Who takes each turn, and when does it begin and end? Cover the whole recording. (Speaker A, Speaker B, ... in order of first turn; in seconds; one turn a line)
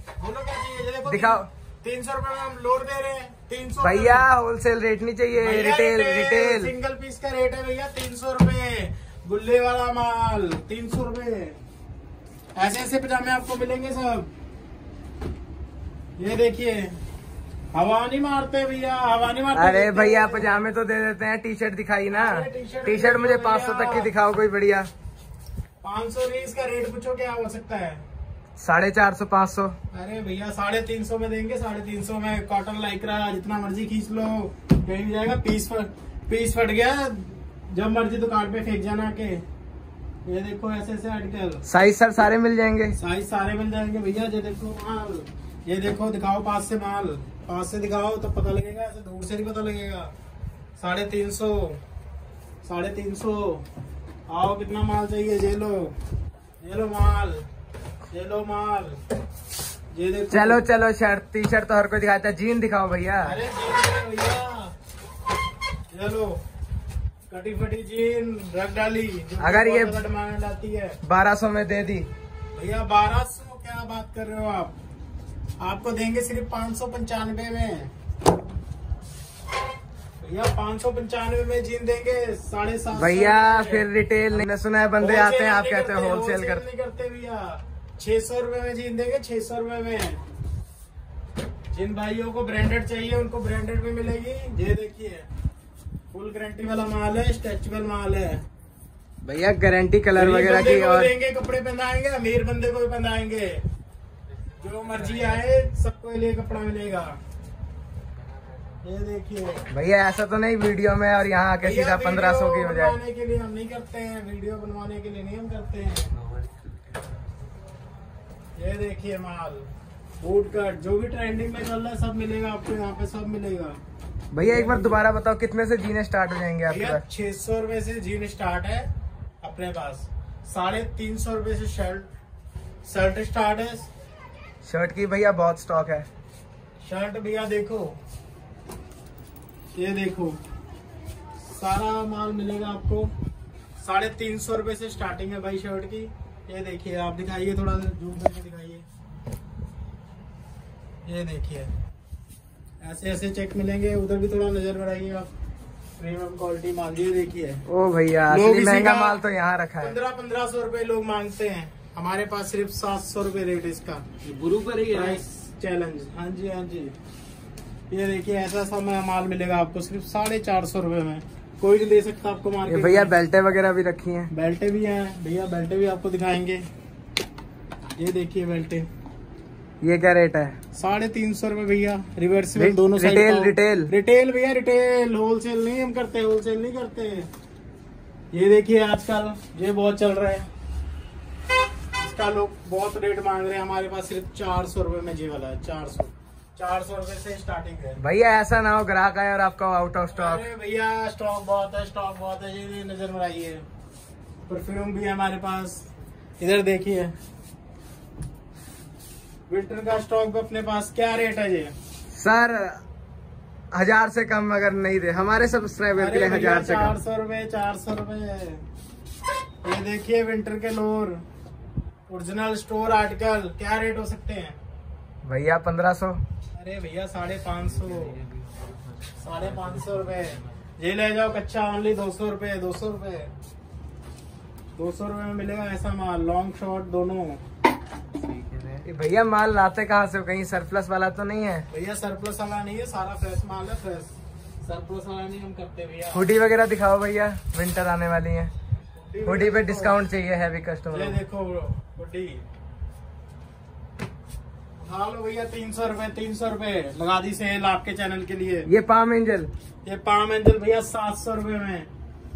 Speaker A: 0.2-4.3
Speaker B: 1.1-1.5
Speaker B: 3.8-6.7
Speaker A: 5.4-11.6
Speaker A: 12.6-14.3
Speaker A: 16.2-16.9
Speaker A: 17.7-20.6
Speaker B: 19.5-24.9
Speaker A: 22.1-24.1
Speaker A: 25.8-28.0
Speaker B: 28.6-29.8
Speaker A: 29.9-39.4
Speaker A: 40.2-41.6
Speaker B: 41.6-43.0
Speaker A: 43.0-50.1
Speaker A: 50.8-51.8
Speaker A: 52.6-53.6
Speaker A: 54.3-55.9
Speaker A: 56.6-57.4
Speaker A: 58.1-59.0
Speaker A: 59.9-60.6
Speaker B: 60.3-63.4
Speaker A: 63.2-64.7
Speaker A: 65.9-66.4
Speaker A: 67.3-71.0
Speaker B: 69.4-70.0
Speaker B: 71.0-72.1
Speaker A: 72.5-74.7
Speaker A: 75.6-77.9
Speaker A: 80.2-83.8
Speaker B: 83.0-86.6
Speaker A: 85.0-90.2
Speaker A: 91.7-95.3
Speaker A: 96.1-98.4
Speaker B: 99.2-101.1
Speaker A: 100.1-103.6
Speaker C: 104.6-105.3
Speaker A: 104.6-107.2
Speaker A: 108.8-109.6
Speaker B: 109.7-113.0
Speaker A: 111.6-116.1
Speaker A: 118.5-119.7
Speaker A: 120.2-123.8
Speaker B: 124.3-127.0
Speaker A: 124.4-125.0
Speaker A: 126.7-128.9
Speaker A: 129.4-132.1
Speaker A: 132.8-133.9
Speaker B: 134.6-136.1
Speaker A: 136.8-137.9
Speaker A: 139.7-140.4
Speaker A: 141.4-143.1
Speaker A: 143.8-148.8
Speaker A: 151.1-151.7
Speaker A: 152.8-155.3
Speaker A: 156.0-157.6
Speaker B: 157.7-159.9
Speaker A: 158.3-159.2
Speaker A: 159.8-164.1
Speaker C: 164.2-165.1
Speaker A: 164.9-166.9
Speaker A: 167.9-173.1
Speaker B: 172.6-174.3
Speaker A: 174.3-176.6
Speaker A: 178.0-178.9
Speaker B: 179.8-180.5
Speaker A: 180.7-187.3
Speaker B: 182.6-183.9
Speaker A: 188.3-190.4
Speaker A: 192.0-198.0
Speaker B: 198.0-200.4
Speaker A: 200.1-203.6
Speaker A: 204.5-205.9
Speaker A: 206.4-207.1
Speaker A: 209.5-211.7
Speaker B: 212.2-212.8
Speaker B: 213.7-216.9
Speaker A: 215.9-218.6
Speaker A: 219.6-221.2
Speaker A: 222.1-224.6
Speaker B: 225.2-226.2
Speaker A: 226.5-228.2
Speaker C: 227.8-230.4
Speaker A: 229.2-233.3
Speaker A: 234.8-237.4
Speaker C: 238.2-238.8
Speaker B: 238.8-241.7
Speaker A: 241.7-246.3
Speaker B: 246.1-248.5
Speaker A: 248.9-250.0
Speaker B: 249.2-251.2
Speaker A: 250.9-252.4
Speaker A: 254.8-258.7
Speaker B: 258.6-259.5
Speaker A: 259.8-261.9